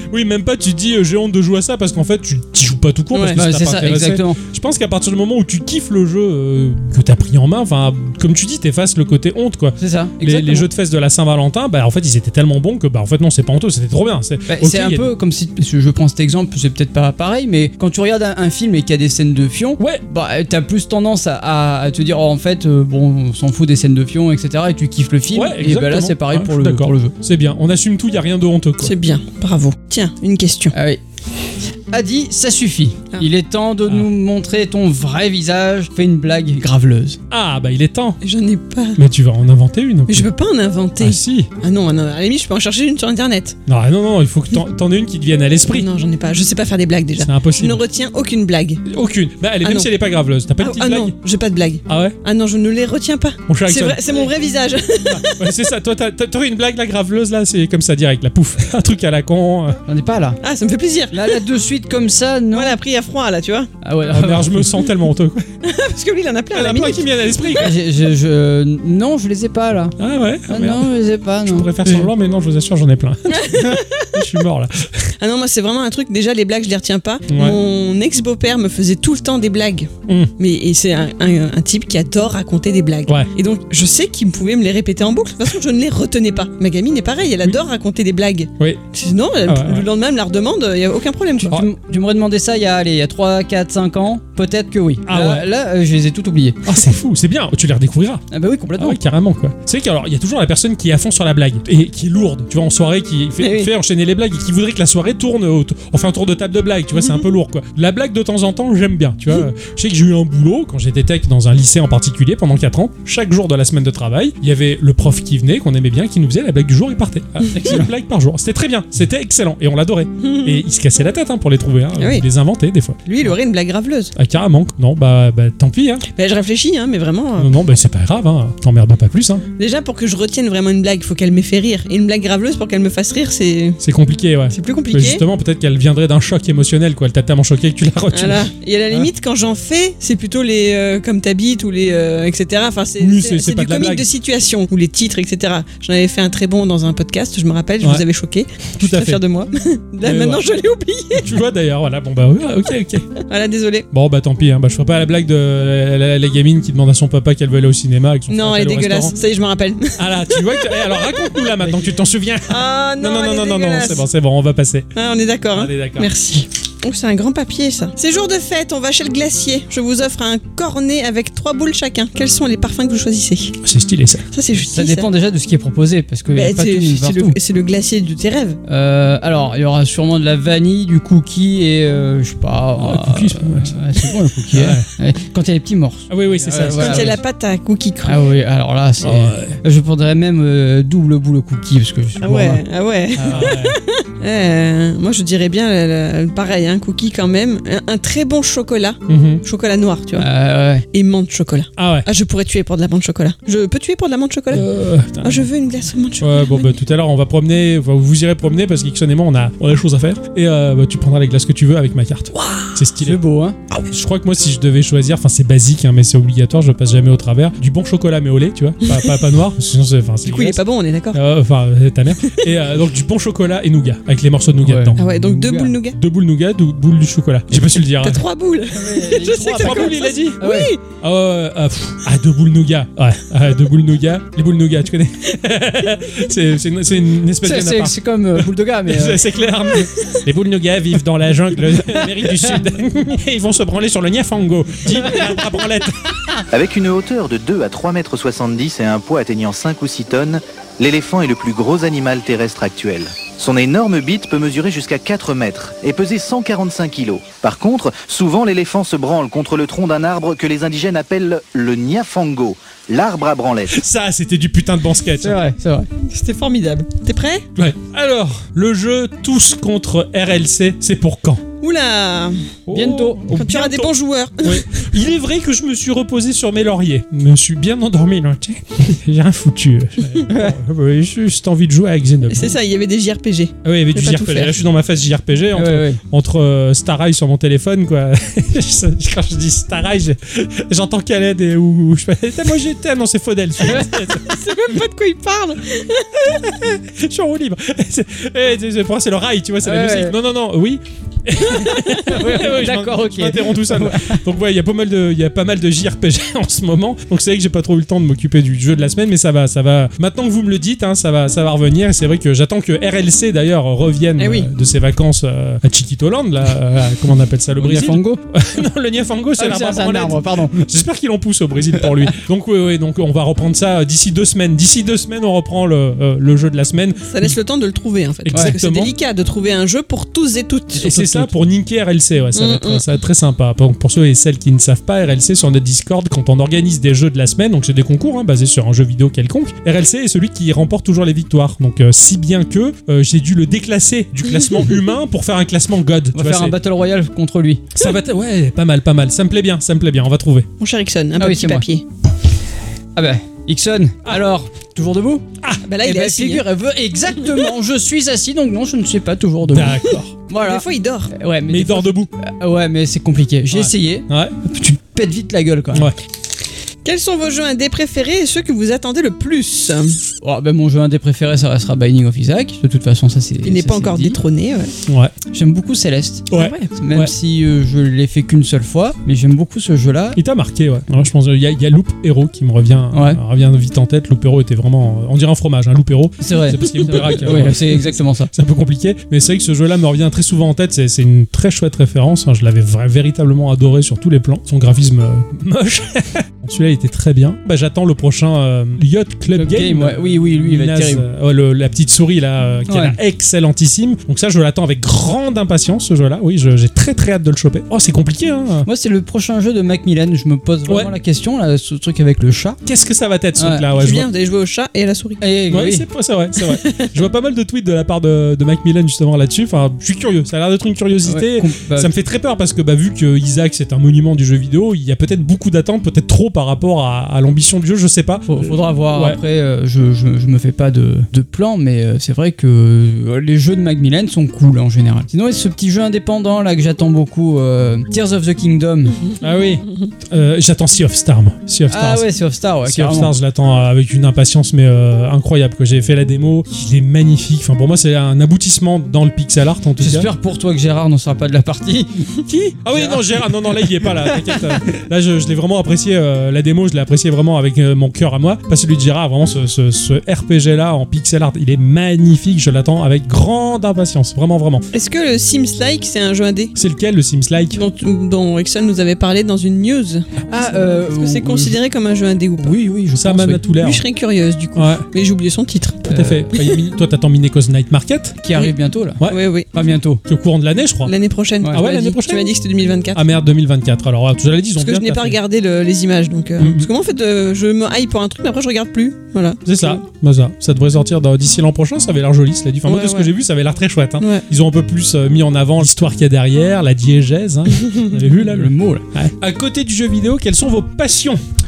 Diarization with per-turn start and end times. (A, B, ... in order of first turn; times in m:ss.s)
0:00.1-0:15.1 A
0:03.1-0:03.4 B
0:03.3-0:04.4 C
0:09.8-0:10.6 C
0:14.5-0:27.1 C
0:25.3-0:28.9 A
0:28.8-0:30.7 B
0:30.7-0:31.0 C
0:31.9-0:37.2 C
0:37.3-0:38.2 A
0:38.2-0:39.0 B
0:39.0-0:40.3 A
0:40.1-0:43.6 B
0:41.0-0:41.5 A
0:43.7-0:45.9 A
0:45.7-0:48.8 B
0:47.2-0:47.8 A
0:48.9-0:51.1 A
0:49.6-0:49.9 B
0:50.6-0:55.4 B
0:51.9-0:52.2 A
0:53.5-0:54.0 A
0:55.1-0:59.8 A
0:59.9-1:00.4 C
1:00.4-1:01.4 B
1:01.1-1:02.8 C
1:02.5-1:03.7 B
1:03.8-1:04.7 C
1:04.1-1:05.4 A
1:05.6-1:07.1 B
1:06.5-1:07.7 A
1:07.6-1:10.0 C
1:10.0-1:10.9 A
1:10.5-1:12.1 C
1:11.4-1:15.1 A
1:13.3-1:14.1 B
1:15.2-1:31.6 B
1:17.3-1:17.6 A
1:29.5-1:29.9 A
1:31.5-1:36.6 C
1:35.1-1:35.4 A
1:36.6-1:38.2 A
1:38.3-1:39.0 C
1:38.8-2:03.4 A
1:43.4-1:43.7 B
1:57.5-1:57.9 C
2:00.2-2:00.6 B
2:02.0-2:02.2 B
2:03.0-2:04.1 B
2:04.1-2:06.0 A
2:06.1-2:07.5 B
2:07.4-2:09.4 A
2:09.6-2:13.8 B
2:13.8-2:19.1 A
2:14.5-2:15.2 B
2:18.1-2:31.3 B
2:23.0-2:24.1 A
2:28.8-2:29.2 A
2:30.0-2:30.4 A
2:31.1-2:33.1 A
2:33.2-2:33.9 B
2:33.9-2:39.1 A
2:38.3-2:41.2 B
2:40.0-2:44.9 A
2:42.5-2:44.0 B
2:45.0-2:53.5 B
2:45.5-2:46.1 A
2:53.6-2:54.2 A
2:54.3-2:55.1 B
2:54.7-2:57.4 C
2:56.3-2:58.6 B
2:58.7-3:07.2 C
3:02.8-3:04.9 A
3:06.1-3:07.2 A
3:06.7-3:08.2 B
3:08.0-3:12.6 C
3:09.0-3:09.6 A
3:12.2-3:20.3 B
3:13.1-3:13.5 C
3:13.3-3:13.8 A
3:19.1-3:19.4 A
3:20.2-3:20.8 C
3:20.9-3:24.6 B
3:21.8-3:22.1 A
3:24.5-3:25.5 A
3:25.2-3:26.7 B
3:26.2-3:33.2 A
3:32.3-3:32.8 B
3:33.0-3:33.6 C
3:33.9-3:40.6 A
3:38.8-3:39.2 B
3:40.2-3:41.2 B
3:41.1-3:45.0 A
3:44.6-3:45.7 C
3:45.0-3:46.0 B
3:45.9-3:48.2 A
3:48.0-3:50.8 B
3:48.7-3:50.7 C
3:49.4-4:06.2 A
3:57.4-3:59.2 C
4:01.8-4:02.6 C
4:05.0-4:05.3 C
4:06.5-4:23.7 D
4:23.7-4:25.4 A
4:25.2-4:25.9 C
4:26.0-4:27.4 B
4:27.6-4:31.4 A
4:31.6-4:32.4 B
4:32.7-4:42.5 A
4:32.7-4:33.2 C
4:33.3-4:34.8 B
4:40.3-4:40.6 C
4:42.3-4:44.5 B
4:43.6-4:54.3 A
4:45.5-4:46.0 C
4:53.6-4:53.9 C
4:54.2-4:56.5 B
4:56.4-5:27.4 A
4:59.6-5:00.1 C
5:01.6-5:01.9 B
5:02.0-5:04.2 C
5:14.2-5:14.5 B
5:17.6-5:18.2 C
5:19.4-5:20.6 C
5:27.0-5:30.9 B
5:28.2-5:28.9 A
5:28.3-5:28.6 C
5:30.8-5:46.6 A
5:30.8-5:31.3 C
5:32.3-5:32.9 B
5:46.1-5:47.7 C
5:47.7-5:50.5 A
5:50.6-5:51.8 B
5:51.2-5:51.6 C
5:52.9-5:55.2 C
5:55.6-5:56.4 B
5:55.8-6:05.9 C
5:59.5-6:00.1 A
6:00.3-6:01.1 B
6:01.5-6:02.1 A
6:03.5-6:04.3 A
6:06.8-6:10.0 B
6:10.2-6:14.2 C
6:13.4-6:14.7 B
6:14.9-6:15.1 A
6:15.3-6:20.2 C
6:16.3-6:17.1 A
6:16.3-6:16.7 B
6:20.2-6:48.7 A
6:22.9-6:23.2 C
6:26.2-6:28.3 C
6:39.3-6:41.0 C
6:42.7-6:43.0 C
6:48.6-6:52.6 C
6:50.6-6:50.9 A
6:52.6-6:54.1 A
6:53.4-6:53.7 C
6:53.8-6:55.2 B
6:55.2-6:55.8 C
6:55.5-7:09.2 A
6:56.4-6:56.9 B
7:01.0-7:01.9 C
7:08.3-7:19.0 C
7:19.2-7:22.1 A
7:21.7-7:23.1 C
7:22.6-7:30.1 A
7:29.8-7:32.2 C
7:32.3-7:44.6 A
7:32.7-7:34.6 C
7:44.7-7:46.5 B
7:46.5-7:47.6 A
7:47.5-7:52.5 B
7:50.3-7:51.6 C
7:52.4-7:53.4 C
7:52.9-7:53.8 A
7:53.6-7:56.5 B
7:54.6-7:54.8 A
7:55.9-7:58.2 A
7:55.9-7:56.2 C
7:58.2-7:59.0 C
7:58.3-7:59.5 B
7:59.5-8:00.0 C
8:00.0-8:00.9 A
8:00.8-8:03.0 B
8:01.5-8:02.3 A
8:02.9-8:05.2 A
8:04.6-8:09.8 B
8:06.4-8:06.7 A
8:09.4-8:21.2 A
8:12.6-8:13.1 B
8:18.2-8:18.8 C